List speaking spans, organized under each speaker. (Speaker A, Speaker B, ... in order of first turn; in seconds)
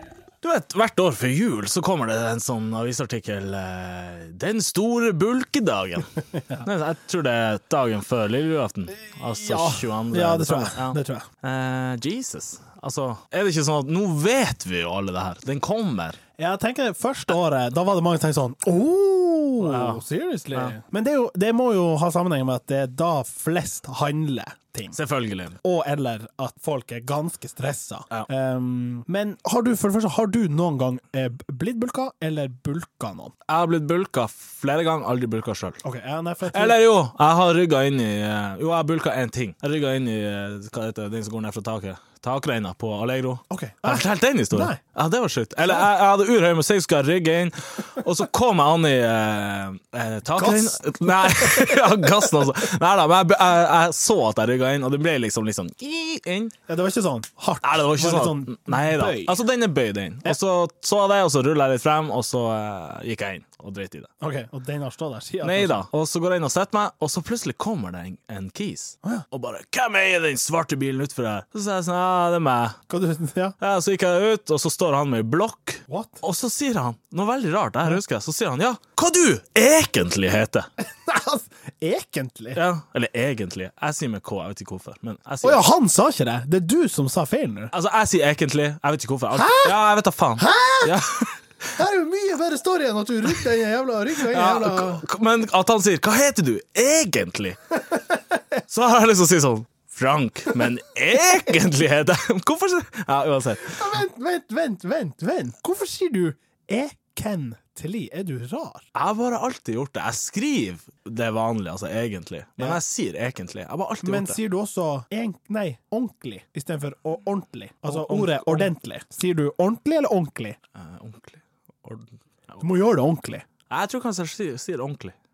Speaker A: 0.4-16.2, 19.6-20.8, 24.9-25.6, 33.5-35.8, 36.5-56.5, 57.6-64.1, 65.4-72.8, 73.6-80.7, 82.5-85.6, 87.7-91.3, 94.2-97.6, 98.7-104.0, 109.0-114.4, 117.9-118.7, 120.8-122.6, 123.7-125.2
Speaker B: 6.4-6.7, 9.1-11.3, 16.4-25.0, 25.6-33.3, 35.8-36.8, 43.5-44.8, 50.4-52.1, 56.7-59.4, 64.2-65.9, 72.9-73.6, 75.9-76.2, 80.8-82.6, 85.4-87.7, 89.3-89.8, 90.4-91.2, 91.7-95.0, 103.7-108.8, 114.0-120.6, 122.6-123.5